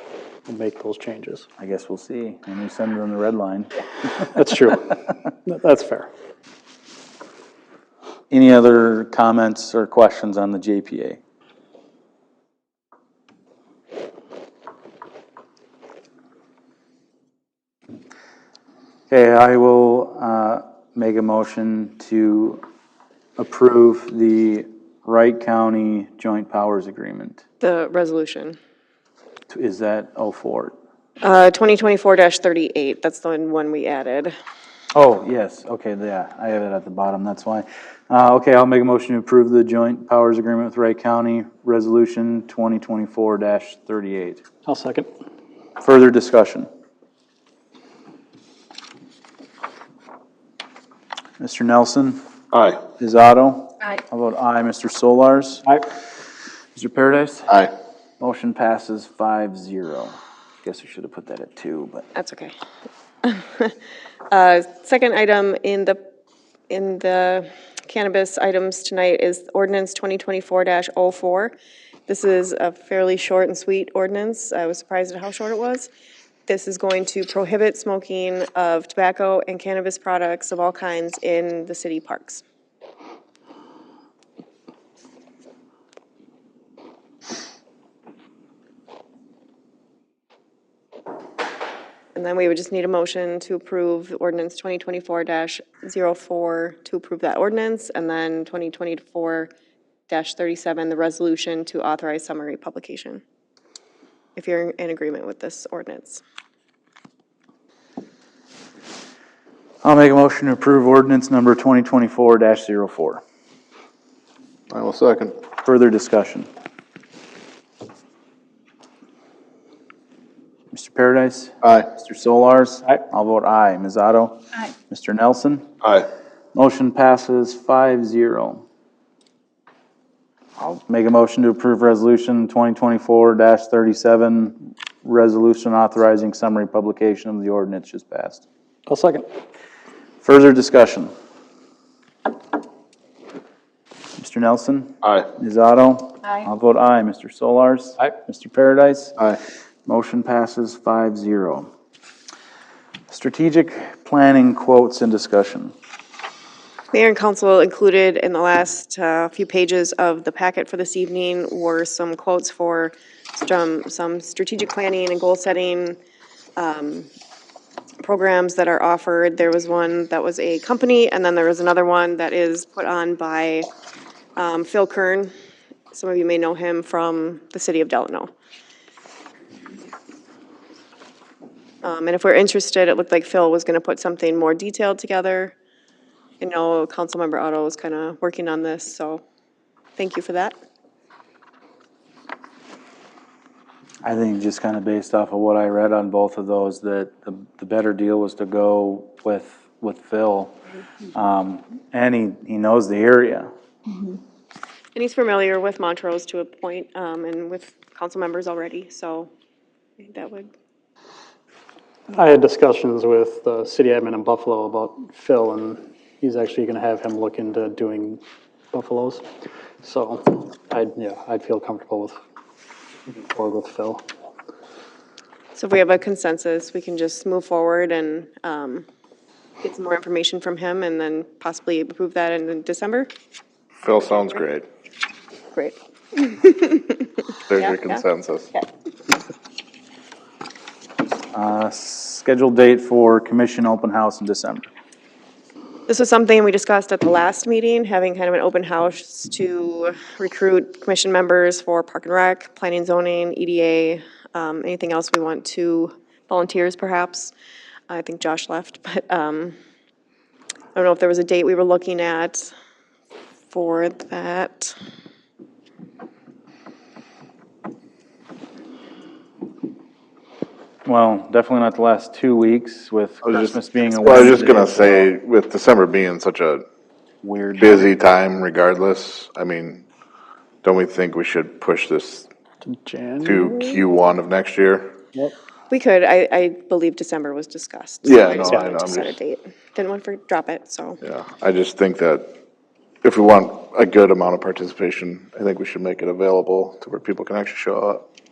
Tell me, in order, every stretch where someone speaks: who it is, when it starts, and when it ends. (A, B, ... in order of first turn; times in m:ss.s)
0:00.5-0:01.5 A
0:01.6-0:03.7 B
0:04.3-0:06.1 A
0:08.3-0:11.2 B
0:19.1-0:22.6 B
0:23.4-0:27.4 B
0:27.6-0:28.6 C
0:29.5-0:30.7 B
0:31.2-0:34.4 C
0:35.0-0:44.4 B
0:44.6-0:45.1 A
0:45.8-0:46.7 B
0:51.4-0:52.2 B
0:52.5-0:52.8 D
0:53.0-0:55.8 B
0:56.8-0:57.5 B
0:58.2-1:02.1 B
1:02.2-1:02.6 C
1:03.2-1:03.8 C
1:04.3-1:06.0 C
1:06.7-1:11.6 C
1:12.1-1:15.9 C
1:16.5-1:22.4 C
1:32.2-1:39.5 C
1:40.1-1:43.2 C
1:44.4-1:46.2 C
1:49.8-1:53.2 B
1:54.7-1:55.4 D
1:55.6-1:56.5 B
2:00.7-2:05.7 B
2:01.6-2:01.9 D
2:06.5-2:08.6 B
2:10.6-2:18.4 B
2:18.9-2:19.3 A
2:20.2-2:21.1 B
2:24.2-2:29.2 B
2:25.0-2:25.3 D
2:29.9-2:31.7 B
2:33.1-2:35.7 B
2:36.9-2:46.0 C
2:46.6-2:47.1 C
2:48.0-2:53.7 C
2:54.4-2:55.3 C
2:55.9-2:58.3 C
3:01.8-3:05.6 C
3:06.4-3:09.2 C
3:10.0-3:10.6 C
3:14.0-3:20.6 B
3:21.1-3:23.5 B
3:25.0-3:29.3 C
3:30.0-3:30.5 C
3:32.1-3:38.2 A
3:38.7-3:39.3 A
3:39.8-3:42.2 A
3:43.1-3:44.0 A
3:45.6-3:48.8 C
3:49.6-3:53.1 C
3:53.8-3:54.7 D
3:55.5-3:58.0 C
3:57.5-3:58.5 D
4:01.3-4:04.7 B
4:05.9-4:17.3 C
4:17.9-4:19.6 C
4:20.7-4:22.5 C
4:23.5-4:24.8 C
4:30.8-4:35.1 B
4:33.3-4:36.6 D
4:37.2-4:37.9 B
4:37.6-4:39.8 D
4:40.6-4:42.3 D
4:42.6-4:43.6 A
4:43.2-4:44.9 D
4:45.7-4:51.0 C
4:48.0-4:49.2 D
4:51.0-4:52.4 D
4:53.0-4:58.0 D